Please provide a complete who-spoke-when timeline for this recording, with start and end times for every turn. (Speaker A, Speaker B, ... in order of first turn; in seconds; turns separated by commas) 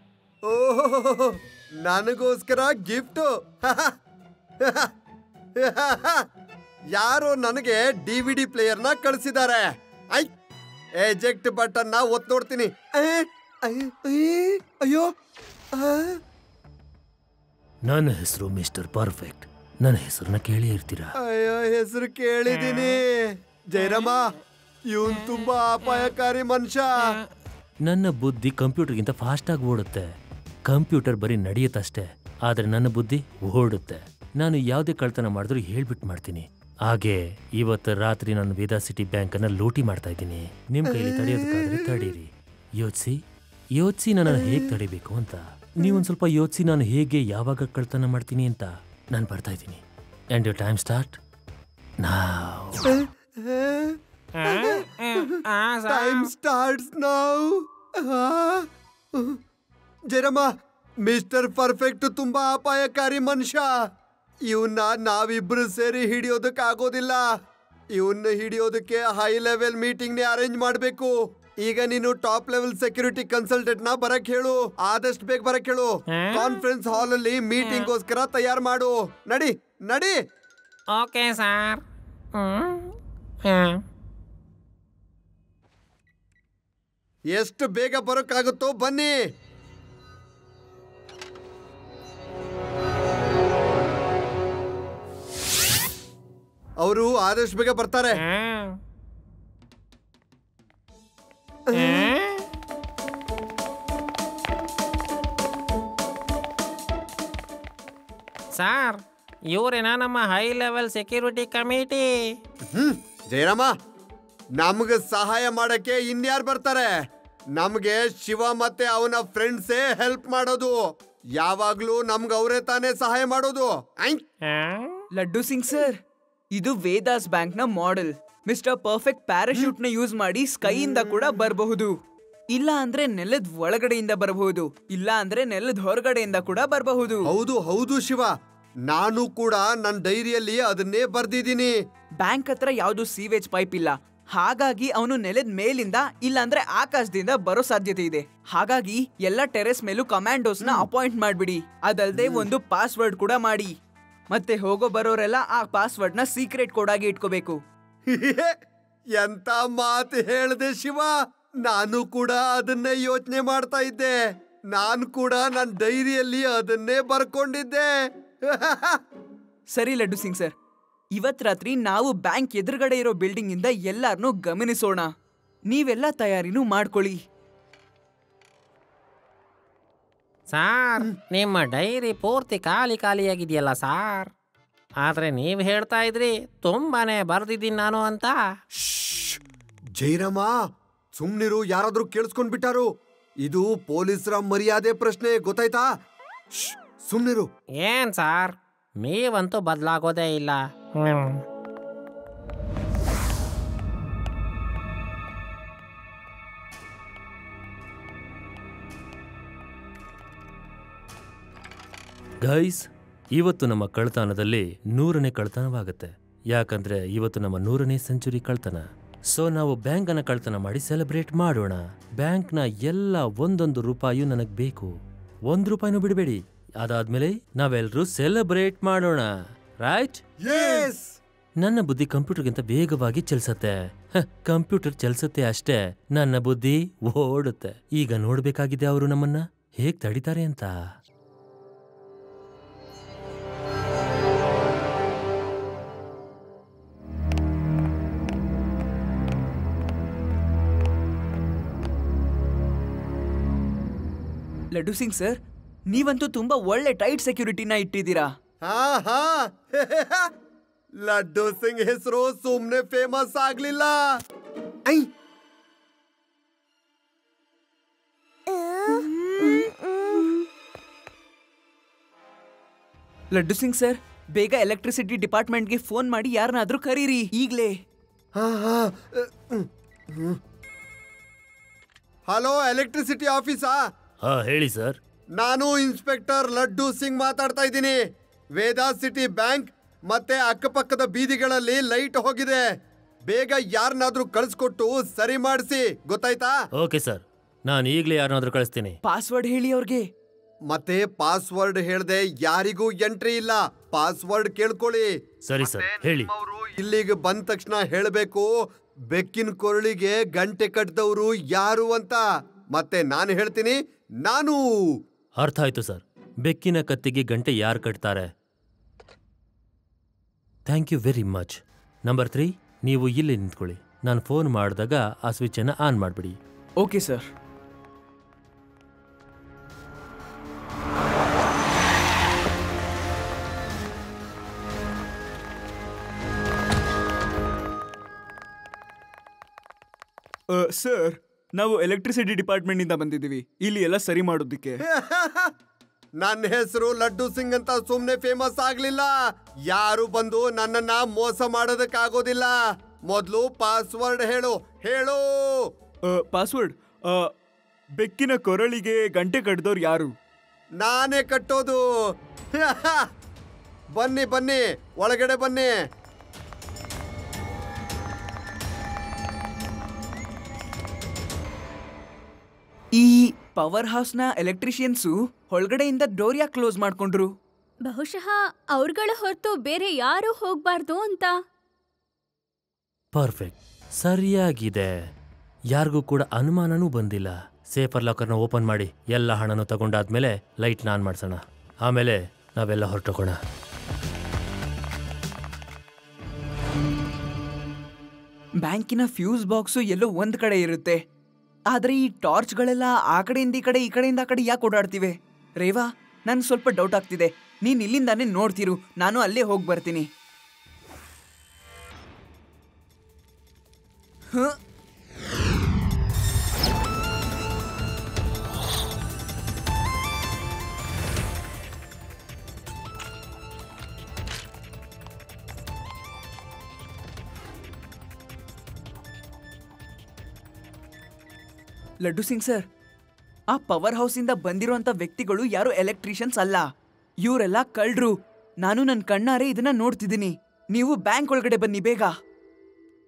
Speaker A: 0.5-3.9, Speaker A: 4.6-4.9, Speaker A: 5.6-6.2, Speaker A: 7.0-10.3, Speaker A: 11.0-15.1, Speaker A: 15.7-16.2, Speaker B: 17.9-21.1, Speaker A: 21.2-24.3, Speaker C: 22.6-22.9, Speaker A: 24.9-26.8, Speaker B: 27.9-30.1, Speaker B: 30.7-43.2, Speaker A: 40.9-41.6, Speaker B: 43.8-51.2, Speaker B: 52.0-53.0, Speaker A: 52.9-55.2, Speaker C: 54.4-56.3, Speaker A: 55.9-59.4, Speaker A: 60.1-60.5, Speaker A: 61.0-63.7, Speaker A: 64.5-67.2, Speaker A: 68.0-71.1, Speaker A: 71.6-80.2, Speaker C: 76.1-76.6, Speaker C: 77.6-77.9, Speaker C: 81.0-81.8, Speaker C: 82.4-82.9, Speaker C: 83.5-83.8, Speaker A: 87.3-89.1, Speaker A: 96.8-98.2, Speaker C: 98.2-98.8, Speaker A: 101.7-102.1, Speaker C: 101.8-102.4, Speaker C: 108.5-112.3, Speaker A: 112.8-113.7, Speaker A: 114.6-116.9, Speaker A: 117.6-120.7, Speaker A: 121.4-124.2, Speaker C: 124.5-125.0, Speaker D: 125.2-126.0, Speaker D: 126.5-131.9, Speaker D: 132.5-137.2, Speaker A: 137.3-138.3, Speaker A: 138.9-141.7, Speaker D: 142.2-153.7, Speaker A: 152.1-152.5, Speaker D: 154.3-157.6, Speaker A: 158.1-158.5, Speaker A: 159.2-161.1, Speaker A: 161.7-164.2, Speaker A: 164.7-167.9, Speaker A: 168.5-169.0, Speaker D: 169.8-170.5, Speaker D: 171.1-175.1, Speaker D: 175.7-177.2, Speaker C: 180.5-184.3, Speaker C: 185.0-188.4, Speaker A: 188.8-189.4, Speaker A: 190.0-190.5, Speaker A: 191.2-192.9, Speaker A: 193.4-195.8, Speaker A: 196.6-197.5, Speaker C: 197.8-201.4, Speaker B: 212.4-212.8, Speaker B: 213.4-224.9, Speaker B: 225.5-229.3, Speaker B: 229.8-230.2, Speaker A: 230.5-231.2, Speaker B: 231.6-240.7, Speaker D: 254.7-255.4, Speaker D: 255.9-258.3, Speaker A: 258.6-260.2, Speaker A: 261.0-263.9, Speaker D: 269.0-269.7, Speaker D: 273.3-277.8, Speaker A: 278.4-280.4, Speaker A: 282.3-283.8, Speaker B: 284.2-285.0, Speaker A: 285.4-288.0, Speaker A: 288.6-292.6, Speaker A: 293.3-296.5, Speaker B: 296.8-299.0, Speaker D: 299.1-300.1, Speaker A: 300.7-308.5, Speaker B: 305.5-306.3, Speaker A: 309.1-312.2, Speaker A: 312.7-314.6, Speaker B: 315.4-318.3, Speaker B: 320.7-326.4, Speaker D: 326.8-327.3, Speaker D: 340.5-344.8, Speaker A: 344.9-345.5, Speaker A: 346.2-349.1, Speaker A: 349.7-352.5, Speaker A: 353.1-355.7, Speaker D: 356.1-357.3, Speaker D: 358.0-360.1, Speaker A: 360.8-361.8, Speaker A: 362.6-363.0, Speaker A: 364.0-365.7, Speaker D: 372.9-377.3, Speaker E: 377.9-381.3, Speaker B: 383.1-384.9, Speaker B: 385.8-393.4, Speaker D: 398.6-401.0, Speaker D: 401.7-410.1, Speaker D: 414.3-414.6, Speaker D: 432.0-432.6, Speaker D: 433.5-436.6, Speaker D: 437.2-442.1